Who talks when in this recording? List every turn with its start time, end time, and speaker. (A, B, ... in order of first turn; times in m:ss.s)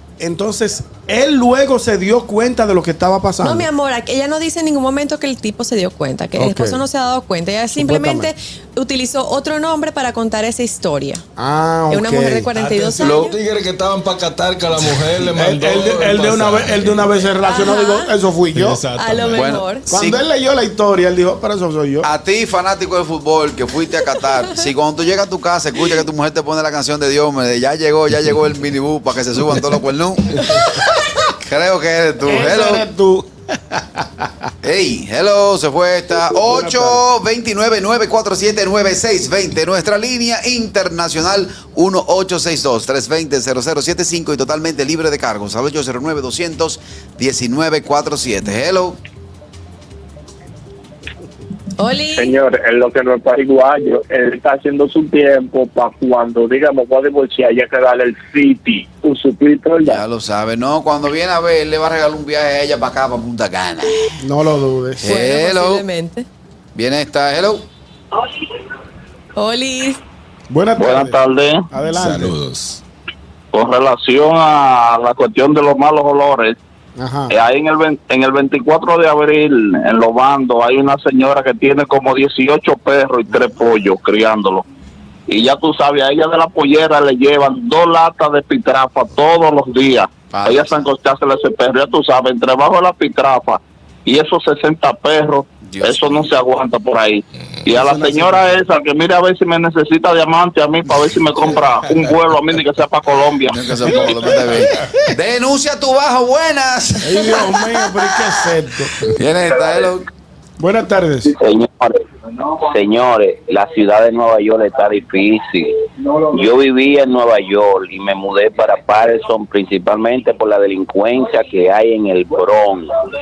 0:00.2-0:03.7 A
0:03.4-0:11.2 B
0:06.4-0:06.8 A
0:07.7-0:08.3 A
0:11.4-0:12.5 A
0:11.9-0:13.3 B
0:12.5-0:17.1 C
0:13.0-0:13.3 D
0:15.2-0:18.8 A
0:17.4-0:18.1 B
0:18.5-0:19.6 C
0:19.0-0:19.9 B
0:19.3-0:20.2 D
0:19.9-0:22.1 A
0:22.0-0:30.6 D
0:31.4-0:32.8 D
0:32.2-0:34.3 A
0:34.6-0:49.0 D
0:36.3-0:37.0 A
0:51.8-0:52.3 B
0:52.2-1:00.0 E
0:59.8-1:04.2 D
1:04.2-1:05.0 A
1:05.0-1:05.8 D
1:05.0-1:06.2 B
1:06.7-1:07.6 D
1:09.4-1:10.0 B
1:10.5-1:11.2 A
1:10.8-1:11.7 F
1:11.7-1:12.3 A
1:11.9-1:12.8 C
1:13.5-1:16.6 F
1:17.0-1:17.3 A
1:17.3-1:24.6 F
1:25.3-1:43.6 F
1:30.3-1:30.9 D
1:35.6-1:36.3 D
1:37.7-1:38.5 A
1:41.8-1:42.2 C
1:43.5-1:47.6 D
1:43.8-1:45.1 C
1:47.0-1:49.0 A
1:49.1-1:50.1 D
1:50.6-1:51.3 A
1:51.4-1:52.0 G
1:52.6-2:02.9 G